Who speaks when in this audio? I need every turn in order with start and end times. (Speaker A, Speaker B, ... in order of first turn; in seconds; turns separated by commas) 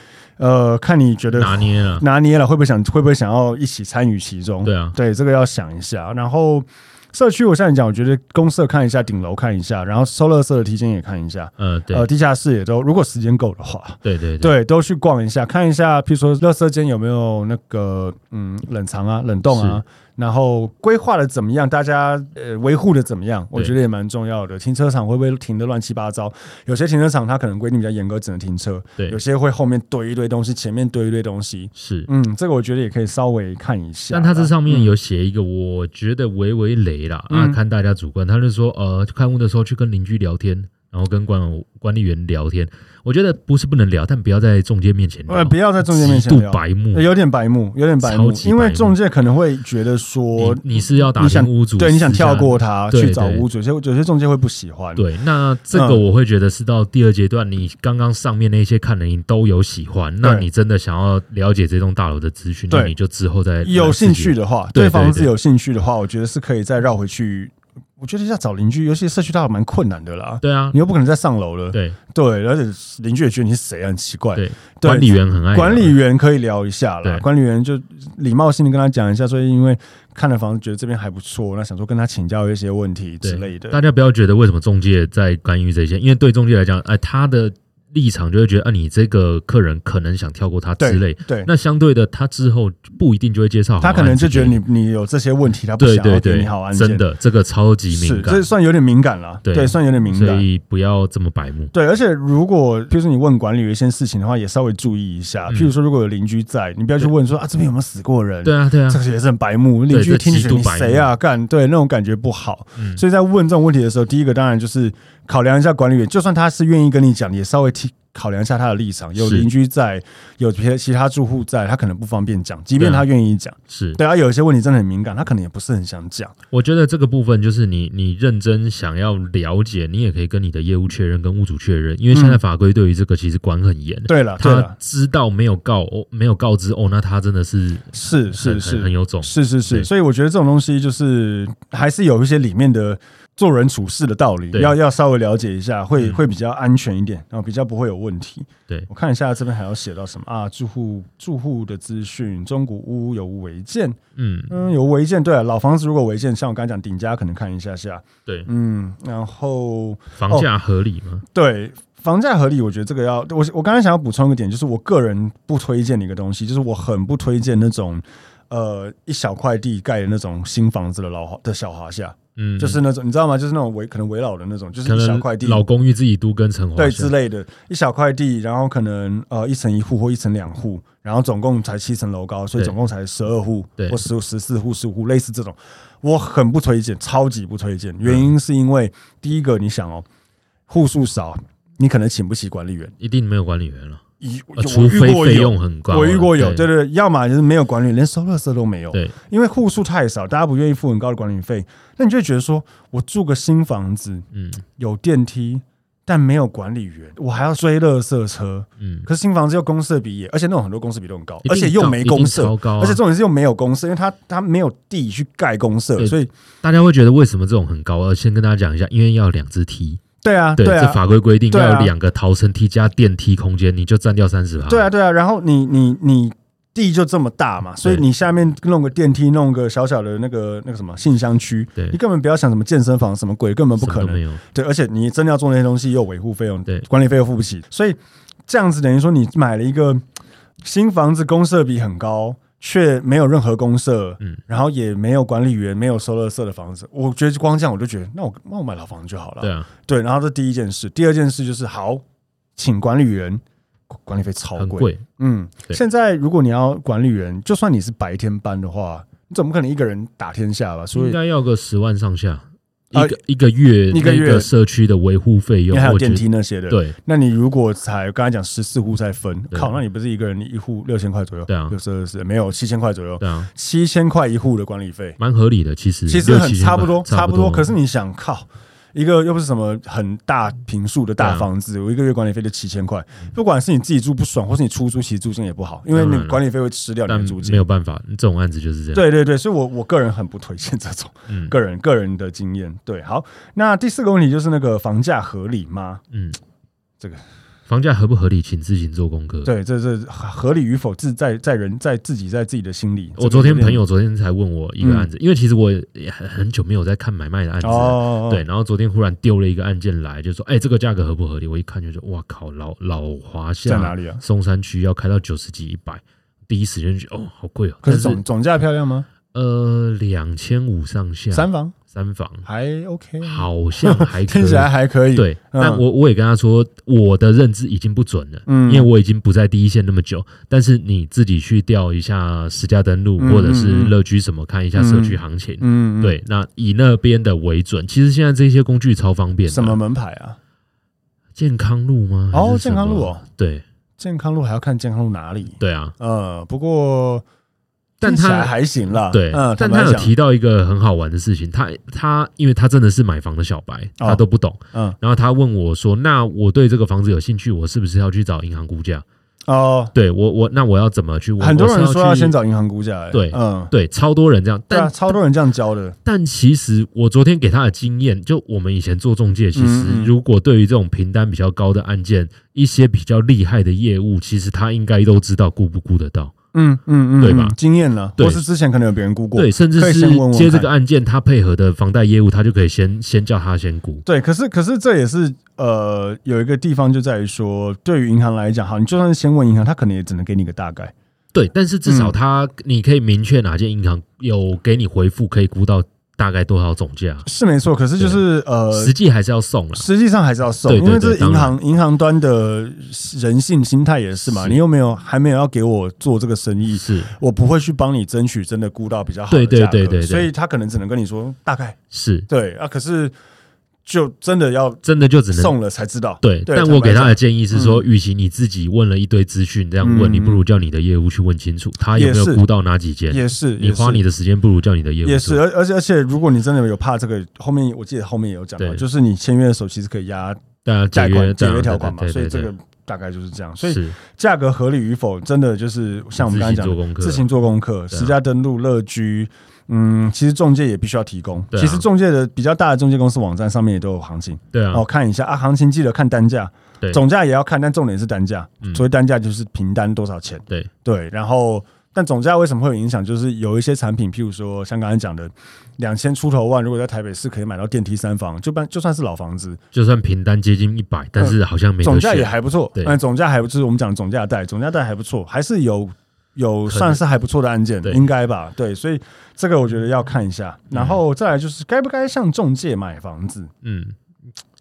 Speaker A: 0.4-34.9, Speaker B: 1.3-2.0, Speaker B: 4.6-5.0, Speaker B: 11.6-12.1, Speaker B: 14.0-14.5, Speaker B: 19.5-19.8, Speaker B: 31.7-32.1, Speaker B: 34.1-47.0, Speaker A: 37.3-37.6, Speaker A: 45.3-55.0, Speaker B: 48.0-49.0, Speaker B: 50.4-53.5, Speaker B: 55.0-65.3, Speaker A: 55.7-56.0, Speaker A: 60.2-60.5, Speaker A: 63.6-83.8, Speaker B: 70.4-70.8, Speaker B: 74.3-76.0, Speaker B: 83.2-94.6, Speaker A: 90.8-91.5, Speaker A: 93.8-97.0, Speaker B: 95.8-98.5, Speaker A: 97.9-100.4, Speaker B: 99.4-101.7, Speaker A: 101.7-126.3, Speaker B: 108.4-109.0, Speaker B: 109.9-111.1, Speaker B: 112.8-113.0, Speaker B: 119.2-119.5, Speaker B: 122.8-123.1, Speaker B: 123.7-124.0, Speaker B: 126.5-139.9, Speaker A: 132.1-132.4, Speaker A: 134.1-134.7, Speaker A: 137.9-154.0, Speaker B: 154.2-154.5, Speaker A: 154.5-160.5, Speaker B: 160.2-161.2, Speaker A: 161.3-175.6, Speaker B: 172.3-172.8, Speaker B: 174.8-177.1, Speaker A: 176.8-190.1, Speaker B: 188.0-188.3, Speaker A: 190.7-192.9, Speaker B: 193.0-194.0, Speaker A: 194.2-204.2, Speaker B: 194.6-196.7, Speaker B: 204.3-204.6, Speaker A: 204.8-216.3, Speaker B: 208.8-209.1, Speaker B: 211.4-213.0, Speaker B: 216.0-220.0, Speaker A: 220.2-221.9, Speaker B: 220.6-224.9, Speaker A: 224.7-240.0, Speaker B: 233.8-234.4, Speaker A: 240.6-252.0, Speaker B: 249.4-249.7, Speaker A: 252.6-261.2, Speaker B: 254.6-255.0, Speaker B: 260.9-266.9, Speaker A: 262.9-263.2, Speaker A: 263.9-264.5, Speaker A: 265.7-275.2, Speaker B: 271.5-271.8, Speaker B: 273.2-273.5, Speaker B: 275.2-277.7, Speaker A: 276.1-287.6, Speaker B: 281.2-281.5, Speaker B: 285.9-286.4, Speaker B: 287.1-289.1, Speaker A: 288.9-296.0, Speaker B: 291.3-291.5, Speaker B: 296.1-296.4, Speaker B: 297.7-299.5, Speaker A: 299.4-303.8, Speaker B: 303.2-318.2, Speaker A: 304.8-305.1, Speaker A: 307.6-308.4, Speaker A: 313.6-314.2, Speaker A: 317.8-319.1, Speaker B: 319.3-322.4, Speaker A: 321.3-321.8, Speaker A: 322.4-325.8, Speaker B: 323.2-339.8, Speaker A: 328.4-328.9, Speaker A: 333.2-333.9, Speaker A: 334.7-336.2, Speaker A: 339.5-340.4, Speaker B: 341.4-343.6, Speaker A: 342.3-343.2, Speaker A: 344.0-347.2, Speaker B: 345.6-345.9, Speaker A: 348.0-350.1, Speaker B: 348.0-359.0, Speaker A: 359.5-359.9, Speaker B: 359.9-362.4, Speaker A: 361.4-363.7, Speaker B: 363.1-365.2, Speaker A: 364.7-365.9, Speaker B: 366.0-376.3, Speaker A: 369.5-370.1, Speaker A: 376.5-380.7, Speaker B: 377.2-377.6, Speaker B: 378.2-378.4, Speaker B: 379.4-384.0, Speaker A: 384.0-390.9, Speaker B: 391.3-397.2, Speaker A: 391.9-392.1, Speaker A: 397.2-398.9, Speaker B: 398.0-399.8, Speaker A: 399.7-411.8, Speaker B: 400.6-401.6, Speaker B: 404.3-404.6, Speaker B: 406.7-407.1, Speaker B: 409.3-410.3, Speaker B: 411.9-412.3, Speaker A: 412.3-413.1, Speaker A: 413.9-417.8, Speaker B: 414.8-415.5, Speaker B: 416.2-425.4, Speaker A: 419.8-420.4, Speaker A: 421.9-422.4, Speaker A: 423.1-424.0, Speaker A: 425.0-459.6, Speaker B: 428.6-428.8, Speaker B: 430.6-432.5, Speaker B: 433.6-433.9, Speaker B: 436.1-437.2, Speaker B: 441.5-441.8, Speaker B: 444.5-444.8, Speaker B: 459.7-463.0, Speaker A: 461.2-473.5, Speaker B: 466.7-467.0, Speaker B: 470.7-471.0, Speaker B: 473.6-474.0